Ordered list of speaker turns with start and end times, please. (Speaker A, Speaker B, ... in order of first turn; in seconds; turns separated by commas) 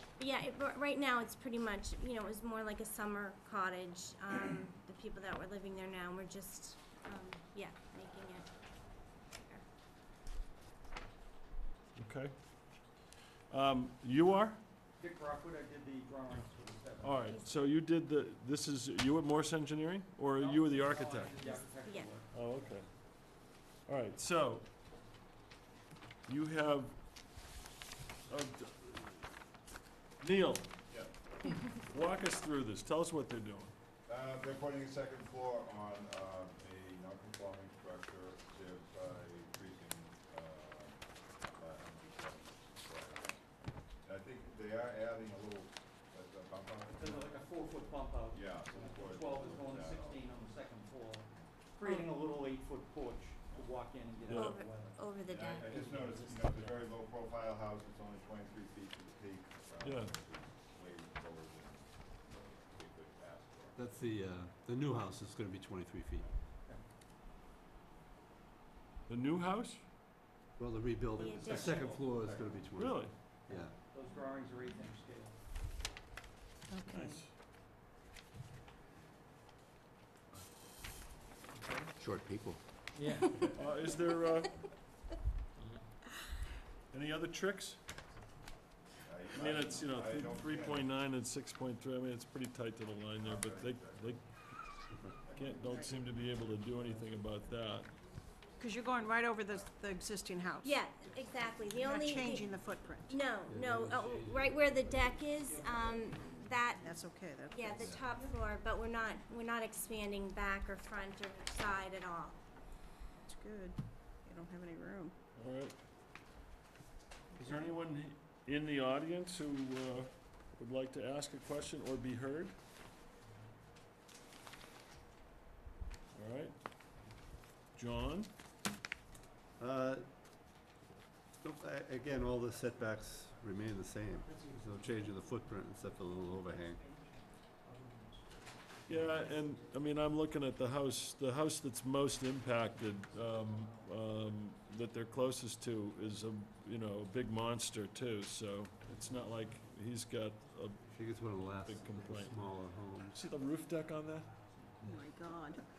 Speaker A: 0.2-8.5, Speaker A: 9.3-9.6, Speaker B: 12.0-12.3, Speaker B: 13.5-14.6, Speaker C: 15.0-17.4, Speaker B: 17.0-21.5, Speaker A: 17.3-17.5, Speaker C: 20.3-22.3, Speaker B: 22.3-24.7, Speaker B: 26.3-26.9, Speaker B: 28.3-29.3, Speaker B: 30.2-30.7, Speaker B: 31.7-33.7, Speaker D: 34.1-41.0, Speaker D: 41.5-47.4, Speaker C: 46.9-55.0, Speaker D: 48.3-50.4, Speaker A: 51.8-52.1, Speaker B: 54.3-54.6, Speaker A: 54.3-55.7, Speaker D: 55.2-63.8, Speaker C: 55.7-56.2, Speaker B: 59.8-60.1, Speaker E: 63.8-66.3, Speaker B: 69.1-69.8, Speaker E: 70.6-73.7, Speaker C: 71.2-72.6, Speaker A: 71.2-71.8, Speaker B: 72.8-73.1, Speaker C: 73.5-75.4, Speaker F: 76.7-77.2, Speaker B: 76.9-77.3, Speaker E: 82.0-82.6, Speaker B: 83.5-84.6, Speaker B: 86.9-87.8, Speaker D: 89.0-90.9, Speaker B: 89.3-94.3, Speaker D: 93.2-94.1, Speaker D: 95.3-95.6, Speaker B: 95.3-97.9, Speaker F: 98.6-100.7, Speaker A: 100.6-102.5, Speaker F: 101.8-103.1, Speaker A: 103.1-112.4, Speaker E: 103.5-105.2, Speaker F: 106.8-108.2, Speaker E: 107.7-108.0, Speaker F: 113.2-115.2, Speaker B: 115.4-115.8, Speaker B: 117.3-122.6, Speaker B: 126.1-126.5, Speaker B: 127.8-128.3, Speaker E: 129.6-130.1, Speaker E: 131.4-136.8, Speaker B: 138.9-150.8, Speaker E: 150.9-153.2, Speaker B: 151.6-152.4, Speaker B: 153.1-154.3, Speaker F: 154.9-155.6